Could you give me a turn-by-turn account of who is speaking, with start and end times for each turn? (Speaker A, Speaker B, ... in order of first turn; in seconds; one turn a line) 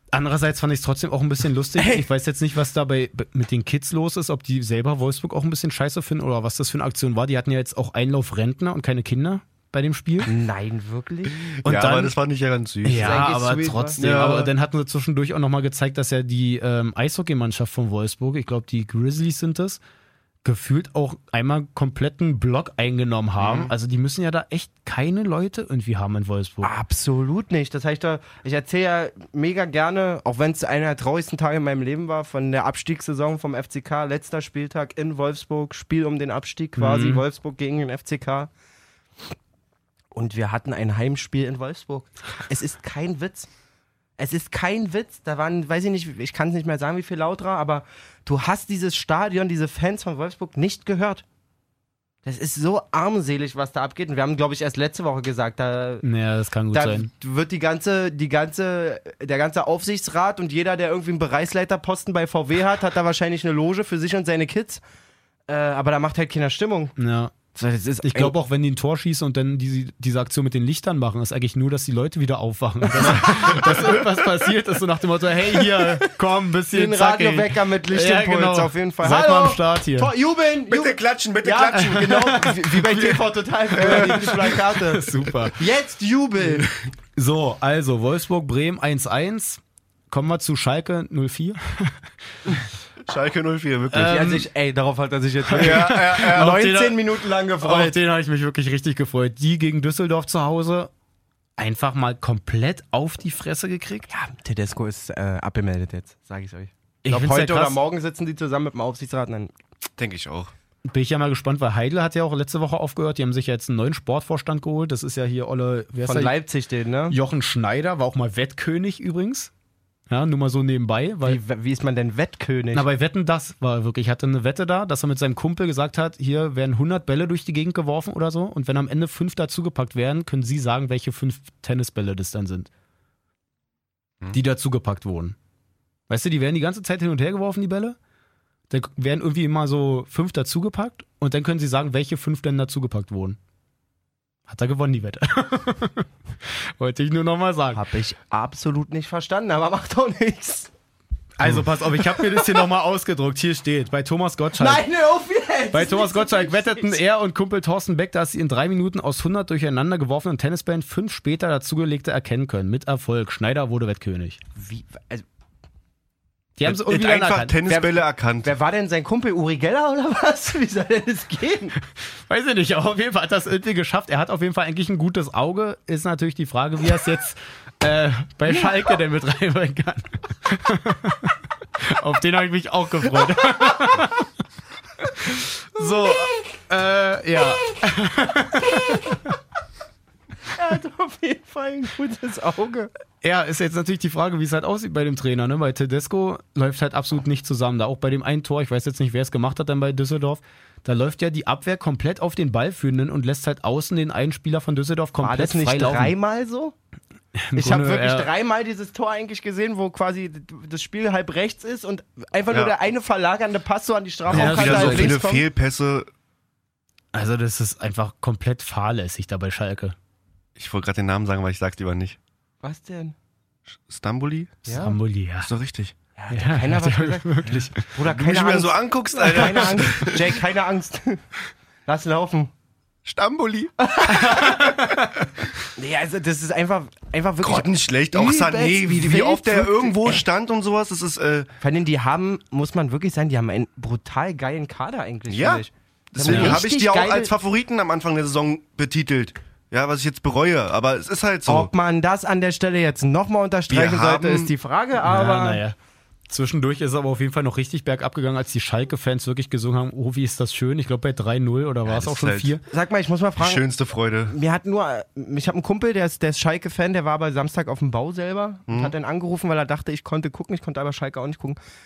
Speaker A: 0.1-10.3
Speaker B: 1.8-2.1
Speaker B: 10.3-11.4
Speaker C: 11.6-13.3
Speaker A: 11.6-12.1
Speaker A: 12.8-19.8
Speaker B: 12.9-14.0
Speaker C: 14.0-14.5
Speaker A: 20.4-26.7
Speaker C: 23.4-23.7
Speaker B: 26.6-38.5
Speaker A: 36.8-37.2
Speaker B: 40.1-43.5
Speaker B: 44.2-51.2
Speaker B: 52.2-56.0
Speaker A: 56.0-57.1
Speaker B: 56.7-64.8
Speaker B: 65.5-67.0
Speaker A: 67.0-67.3
Speaker B: 67.5-68.3
Speaker A: 68.0-80.1
Speaker B: 73.0-73.7
Speaker B: 76.7-86.7
Speaker C: 80.7-82.4
Speaker A: 81.8-85.6
Speaker C: 83.8-84.4
Speaker A: 87.2-92.0
Speaker C: 93.1-94.3
Speaker A: 93.9-94.5
Speaker B: 94.0-98.0
Speaker A: 95.5-97.0
Speaker C: 95.6-96.6
Speaker A: 97.6-100.9
Speaker A: 101.6-104.1
Speaker B: 104.1-109.5
Speaker A: 107.0-107.8
Speaker C: 110.0-110.5
Speaker A: 110.8-116.4
Speaker B: 116.0-117.2
Speaker A: 117.1-119.5
Speaker A: 120.1-121.4
Speaker B: 121.2-122.9
Speaker A: 122.7-132.7
Speaker A: 134.3-135.4
Speaker A: 136.1-138.0
Speaker A: 138.7-143.4
Speaker A: 144.5-146.1
Speaker A: 146.8-147.8
Speaker B: 147.7-150.7
Speaker A: 151.4-154.8
Speaker B: 154.6-157.0
Speaker A: 155.7-164.4
Speaker B: 164.6-165.2
Speaker A: 166.6-167.6
Speaker C: 166.7-168.5
Speaker B: 167.7-171.8
Speaker A: 172.3-184.3
Speaker A: 185.1-189.2
Speaker B: 190.5-192.9
Speaker A: 193.2-206.1
Speaker B: 205.2-206.8
Speaker A: 207.4-208.3
Speaker B: 207.6-215.4
Speaker C: 214.3-216.1
Speaker A: 214.3-215.2
Speaker A: 217.1-220.0
Speaker C: 220.6-222.2
Speaker B: 222.6-223.2
Speaker C: 223.8-224.7
Speaker B: 224.7-225.0
Speaker A: 224.7-225.5
Speaker C: 225.4-225.9
Speaker B: 226.2-231.2
Speaker A: 226.3-227.8
Speaker C: 228.0-230.4
Speaker B: 231.9-232.5
Speaker C: 233.1-233.7
Speaker B: 233.8-234.7
Speaker A: 234.1-235.1
Speaker B: 235.8-240.2
Speaker C: 237.4-241.5
Speaker B: 241.6-247.3
Speaker C: 245.3-251.7
Speaker A: 246.3-246.6
Speaker B: 251.5-255.6
Speaker C: 253.7-254.5
Speaker A: 255.0-255.8
Speaker A: 256.3-262.6
Speaker C: 261.9-262.6
Speaker B: 262.7-263.6
Speaker C: 263.4-264.4
Speaker B: 264.3-271.6
Speaker C: 268.7-268.9